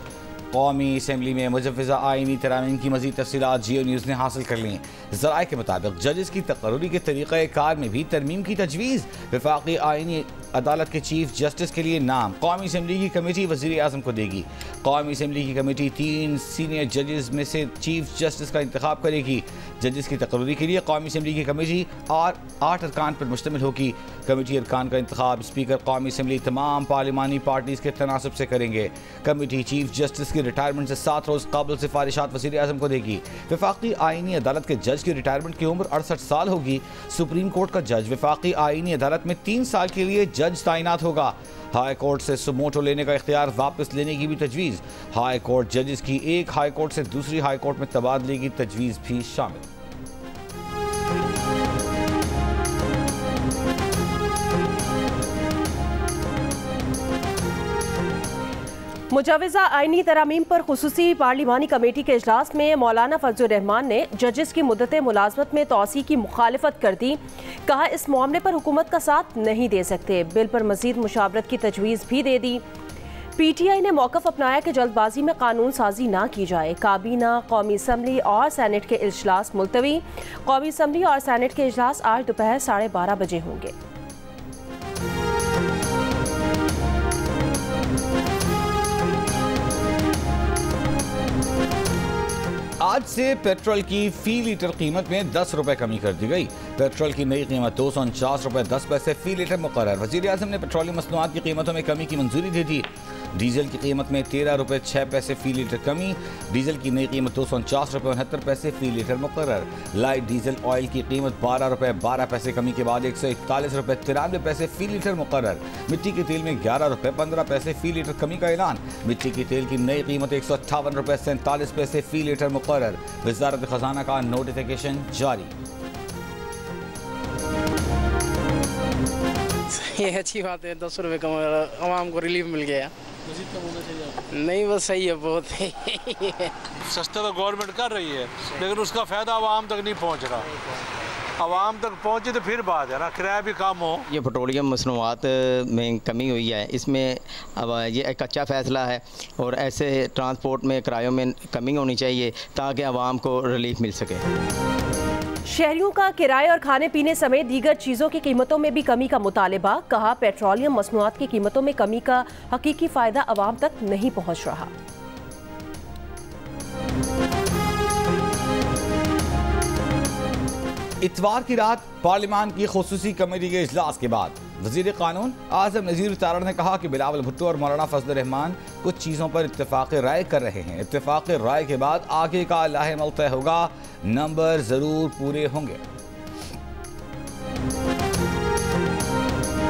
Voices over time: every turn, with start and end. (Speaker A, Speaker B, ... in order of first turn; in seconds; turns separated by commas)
Speaker A: 0.5-49.6, Speaker B: 59.1-72.6, Speaker B: 73.4-83.7, Speaker A: 92.8-125.5, Speaker C: 129.7-132.9, Speaker D: 133.4-134.1, Speaker C: 134.3-136.6, Speaker D: 136.8-140.5, Speaker D: 141.4-144.0, Speaker E: 144.1-154.2, Speaker B: 155.4-164.7, Speaker A: 171.0-185.8